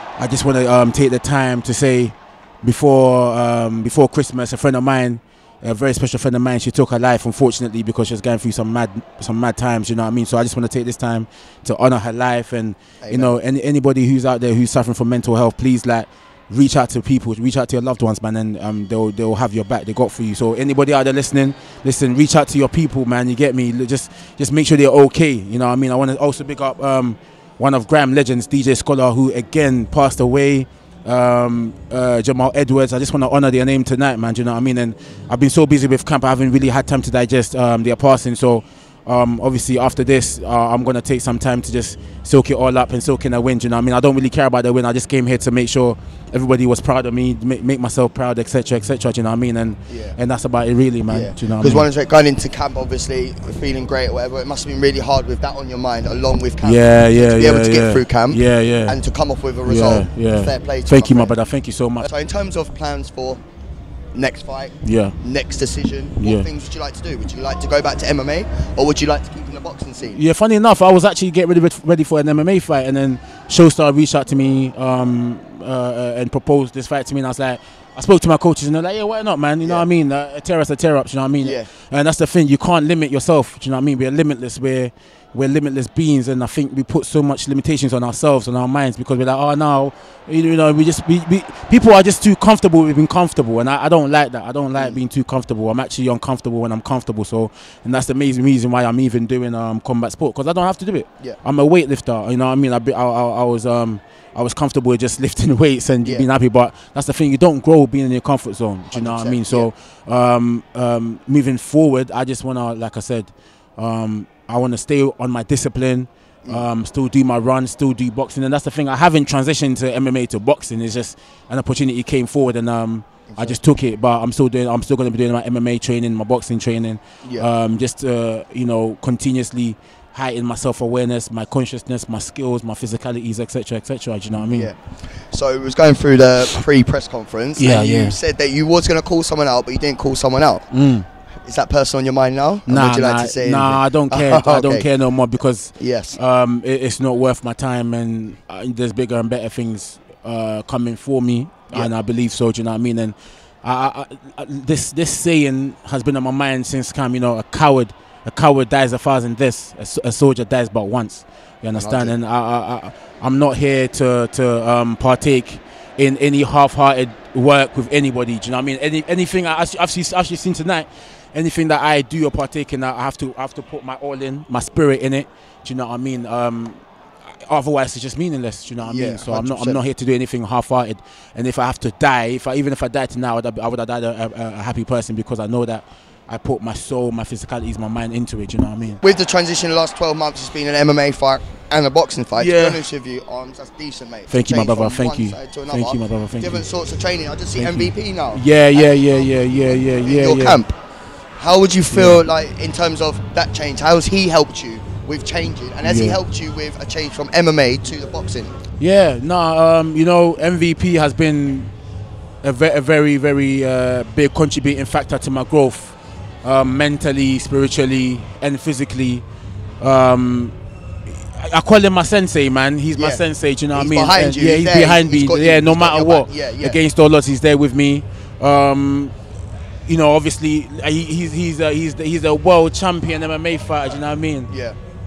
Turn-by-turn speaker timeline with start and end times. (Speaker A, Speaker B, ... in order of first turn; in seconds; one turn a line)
Speaker A: 0.2-51.9
Speaker B: 13.0-13.3
Speaker B: 49.9-50.2
Speaker B: 51.1-61.4
Speaker A: 56.6-59.0
Speaker A: 59.6-62.1
Speaker B: 62.0-63.4
Speaker B: 64.1-70.2
Speaker A: 64.8-65.2
Speaker A: 66.2-66.5
Speaker A: 70.1-134.7
Speaker B: 81.4-81.7
Speaker B: 94.8-95.0
Speaker B: 108.9-109.7
Speaker B: 123.3-123.6
Speaker B: 127.2-127.5
Speaker B: 134.4-140.7
Speaker A: 137.6-138.2
Speaker A: 140.7-141.1
Speaker B: 141.4-145.0
Speaker A: 142.7-189.0
Speaker B: 145.7-146.2
Speaker B: 161.7-162.1
Speaker B: 178.8-179.8
Speaker B: 189.0-200.7
Speaker A: 192.4-192.8
Speaker A: 194.3-196.7
Speaker A: 197.5-200.6
Speaker B: 201.4-208.5
Speaker A: 201.9-202.2
Speaker A: 205.8-206.2
Speaker A: 208.8-211.7
Speaker A: 212.4-219.2
Speaker A: 219.8-220.6
Speaker A: 221.2-229.1
Speaker B: 222.9-226.8
Speaker A: 229.9-234.5
Speaker B: 234.5-234.8